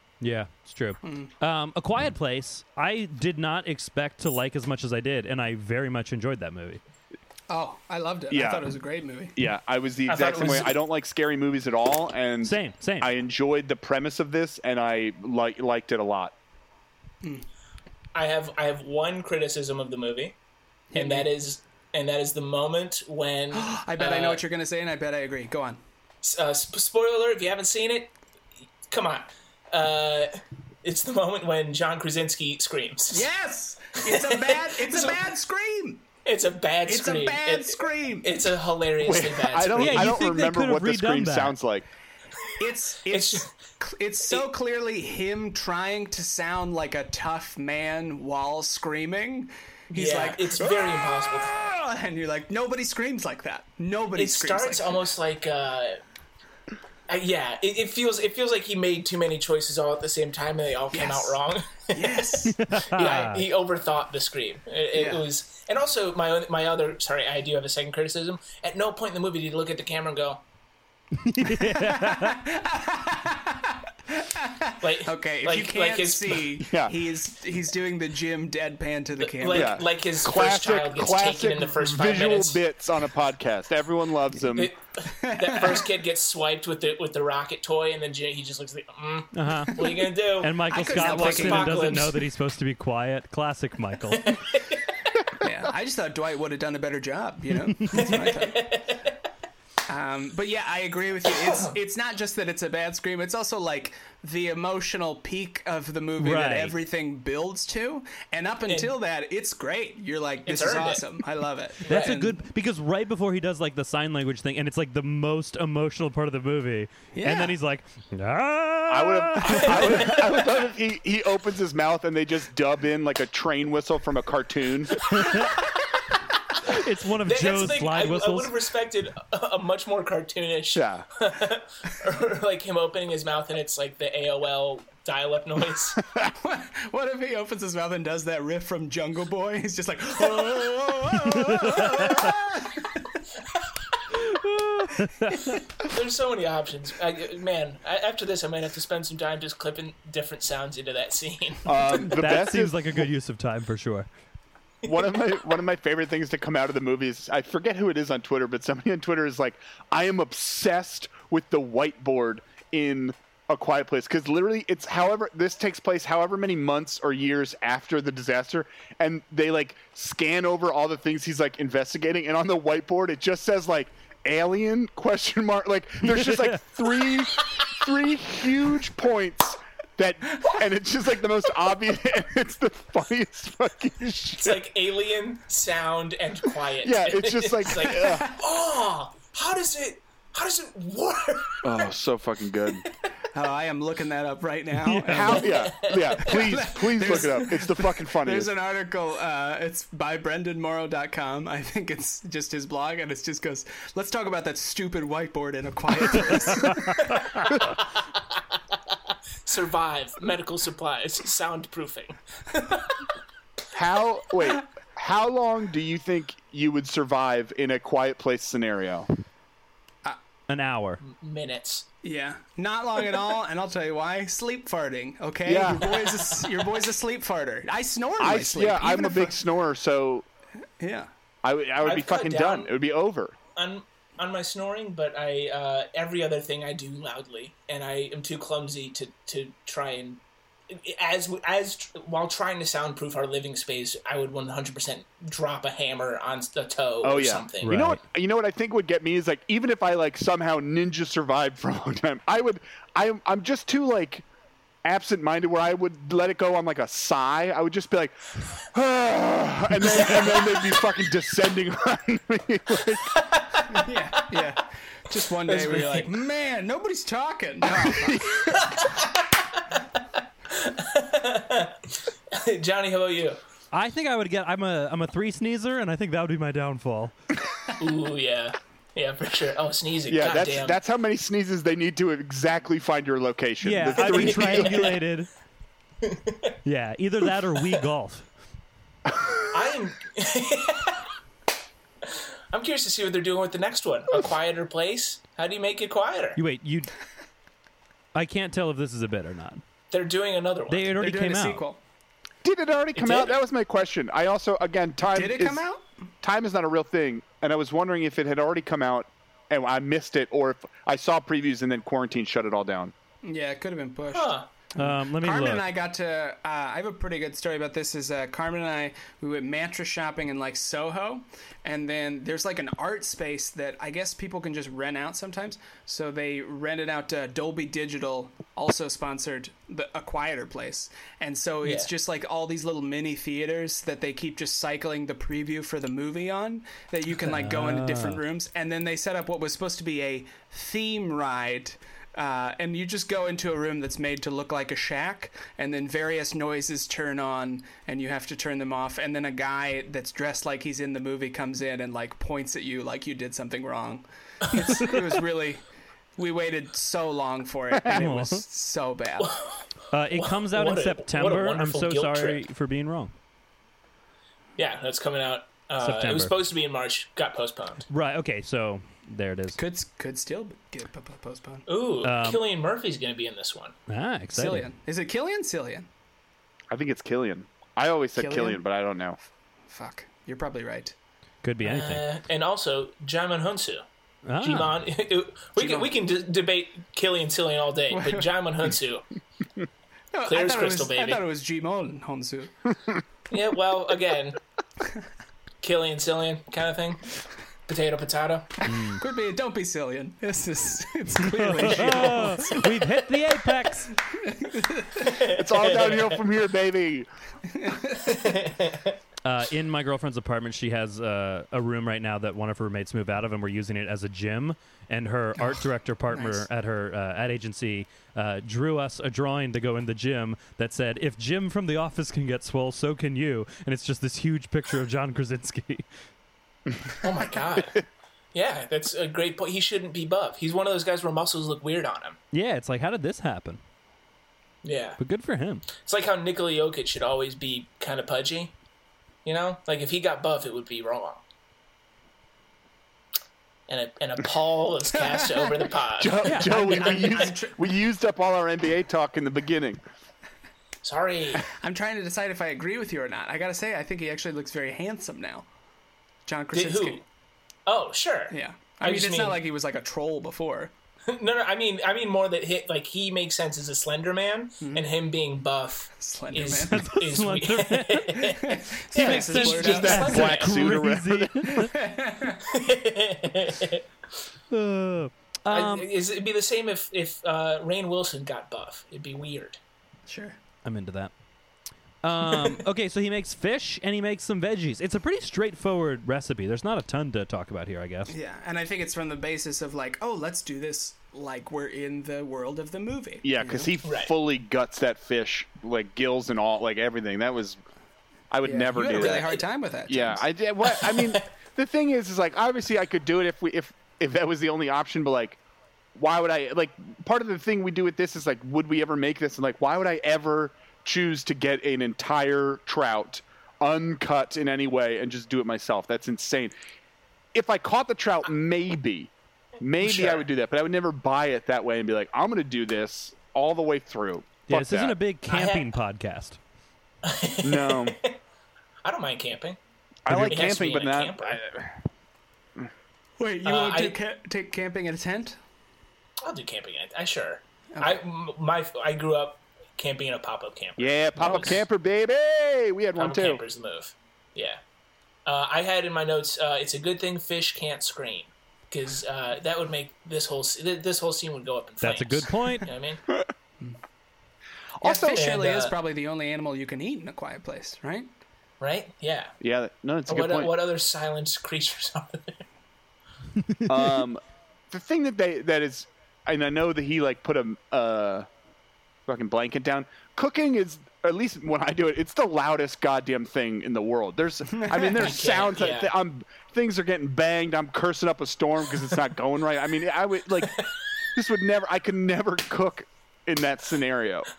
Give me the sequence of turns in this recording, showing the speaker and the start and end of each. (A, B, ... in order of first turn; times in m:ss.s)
0:00.2-0:06.8 A
0:01.0-0:01.3 B
0:07.5-0:09.4 B
0:08.3-0:08.7 C
0:09.4-0:16.3 C
0:10.1-0:10.8 D
0:12.4-0:13.1 A
0:18.1-0:20.4 D
0:20.9-0:21.3 B
0:20.9-0:24.4 D
0:23.5-0:25.8 B
0:26.2-0:28.2 D
0:28.9-0:33.3 D
0:33.1-0:36.0 B
0:34.0-0:35.3 D
0:36.2-0:40.2 D
0:36.9-0:38.3 B
0:39.0-0:41.9 C
0:39.7-0:41.6 A
0:42.6-0:50.6 B
0:43.1-0:43.5 D
0:49.9-0:51.6 D
0:51.5-0:55.0 B
0:54.2-0:56.0 D
0:57.1-1:10.4 D
1:00.9-1:01.4 B
1:01.9-1:02.6 B
1:02.4-1:03.4 A
1:04.9-1:05.2 B
1:11.2-1:12.4 A
1:11.5-1:19.7 B
1:14.8-1:16.6 D
1:16.6-1:16.9 C
1:19.2-1:22.6 D
1:19.5-1:24.7 C
1:24.5-1:32.2 D
1:25.1-1:25.9 B
1:29.3-1:34.4 A
1:30.7-1:32.1 B
1:34.2-1:34.8 D
1:35.4-1:38.8 B
1:37.9-1:39.2 D
1:39.9-1:52.4 B
1:41.3-1:41.8 D
1:46.2-1:46.8 A
1:48.7-1:49.0 D
1:50.5-1:51.0 D
1:51.8-1:52.2 D
1:51.9-2:00.2 A
1:57.1-1:57.6 B
1:58.9-2:05.0 C
1:59.4-2:00.5 D
2:05.1-2:05.6 D
2:05.1-2:05.6 A
2:06.6-2:08.5 A
2:07.2-2:16.0 D
2:10.7-2:11.0 C
2:16.2-2:23.1 B
2:21.3-2:22.3 A
2:24.1-2:25.6 A
2:25.8-2:32.1 D
2:31.6-2:33.0 C
2:32.1-2:34.1 A
2:34.8-3:04.6 C
2:34.8-2:35.2 D
2:56.0-2:56.6 A
3:04.4-3:11.8 D
3:06.8-3:08.3 C
3:11.6-3:12.9 C
3:13.3-3:27.2 B
3:14.8-3:15.5 A
3:15.0-3:18.5 C
3:15.5-3:17.4 D
3:29.4-3:33.0 D
3:33.7-3:39.1 C
3:40.5-3:41.0 A
3:41.0-3:41.9 D
3:42.0-3:49.4 B
3:45.4-3:46.0 C
3:45.9-3:46.5 D
3:48.2-3:50.3 C
3:50.8-3:51.1 B
3:51.4-3:53.3 C
3:51.8-3:52.7 D
3:53.6-4:07.8 D
4:07.0-4:14.3 C
4:07.6-4:08.0 A
4:14.8-4:23.1 C
4:20.2-4:20.6 D
4:23.1-4:24.5 D
4:23.7-4:28.3 B
4:25.3-4:26.1 D
4:27.6-4:28.7 C
4:28.4-4:29.6 D
4:30.5-4:33.4 D
4:33.7-4:37.2 A
4:37.8-4:40.8 D
4:40.1-4:44.9 C
4:43.6-4:45.3 A
4:44.0-4:45.0 D
4:46.0-4:46.5 D
4:46.6-4:48.3 A
4:49.2-4:49.4 C
4:49.5-4:51.1 D
4:52.0-4:56.4 D
4:56.4-4:56.9 A
4:58.1-4:59.6 A
4:59.9-5:01.0 D
5:00.7-5:01.6 A
5:01.0-5:01.8 B
5:02.4-5:05.6 C
5:03.0-5:03.4 D
5:05.1-5:05.8 B
5:06.2-5:12.9 C
5:13.2-5:55.6 B
5:14.1-5:14.5 D
5:14.8-5:15.6 A
5:31.6-5:31.9 D
5:37.3-5:38.2 A
5:54.4-5:55.0 D
5:56.2-5:59.4 B
5:57.7-5:58.1 C
5:57.8-5:58.4 A
5:59.2-6:02.4 D
5:59.9-6:03.1 A
6:04.6-6:07.9 D
6:05.8-6:06.3 A
6:07.9-6:09.6 A
6:09.6-6:11.7 B
6:11.7-6:13.8 D
6:12.0-6:12.4 A
6:13.9-6:14.7 A
6:14.3-6:15.9 B
6:16.7-6:19.2 C
6:18.2-6:18.6 B
6:19.7-6:21.0 B
6:21.4-6:22.0 A
6:21.6-6:23.8 D
6:24.3-6:24.7 A
6:24.4-6:29.0 D
6:25.6-6:25.9 B
6:27.9-6:28.3 B
6:30.1-6:32.5 B
6:30.3-6:31.2 D
6:33.3-6:34.4 D
6:35.6-6:37.1 D
6:37.7-6:38.6 D
6:38.7-6:39.0 A
6:38.9-6:42.9 B
6:41.2-6:43.9 A
6:44.1-6:45.1 B
6:45.0-6:46.2 D
6:45.2-6:47.1 C
6:47.5-6:48.4 B
6:48.0-6:49.0 D
6:49.2-7:05.9 A
6:55.4-6:56.5 B
7:07.0-7:12.2 D
7:12.3-7:13.6 A
7:14.6-7:15.0 D
7:15.0-7:15.7 A
7:15.7-7:18.5 D
7:19.2-7:21.2 D
7:23.7-7:27.4 D
7:26.0-7:29.8 C
7:26.2-7:26.5 A
7:26.4-7:27.6 B
7:30.8-7:31.5 D
7:31.6-7:35.5 B
7:36.2-7:37.0 B
7:36.5-7:37.0 D
7:37.7-7:39.4 D
7:38.3-7:40.7 B
7:41.1-7:50.6 D
7:46.0-7:46.8 B
7:46.7-7:48.3 A
7:48.3-7:50.4 B
7:48.9-7:51.7 A
7:49.4-7:51.6 C
7:51.5-7:52.4 B
7:52.4-7:53.8 D
7:54.5-7:55.9 A
7:55.5-7:59.6 D
8:00.1-8:00.4 B
8:00.6-8:01.1 A
8:02.0-8:08.1 A
8:08.1-8:13.7 B
8:13.2-8:17.6 C
8:13.8-8:14.1 D
8:18.3-8:25.4 C
8:18.4-8:20.2 B
8:18.8-8:19.4 D
8:20.6-8:21.3 D
8:26.0-8:36.5 C
8:37.3-8:45.0 C
8:39.8-8:40.3 D
8:44.5-8:46.4 A
8:45.3-8:45.7 D
8:47.0-8:48.2 D
8:47.4-8:48.0 C
8:48.8-8:51.4 D
8:50.1-8:51.8 C
8:53.2-8:55.4 B
8:53.4-8:54.0 D
8:56.2-9:01.6 D
9:00.8-9:03.4 C
9:03.0-9:04.6 D
9:05.3-9:13.0 D
9:11.8-9:12.7 A
9:14.8-9:15.3 C
9:14.8-9:18.1 B
9:15.2-9:15.8 D
9:18.6-9:19.4 D
9:19.4-9:20.5 C
9:20.1-9:22.5 D
9:23.4-9:24.0 A
9:23.7-9:28.3 C
9:29.1-9:44.3 C
9:34.6-9:34.9 B
9:34.9-9:35.9 D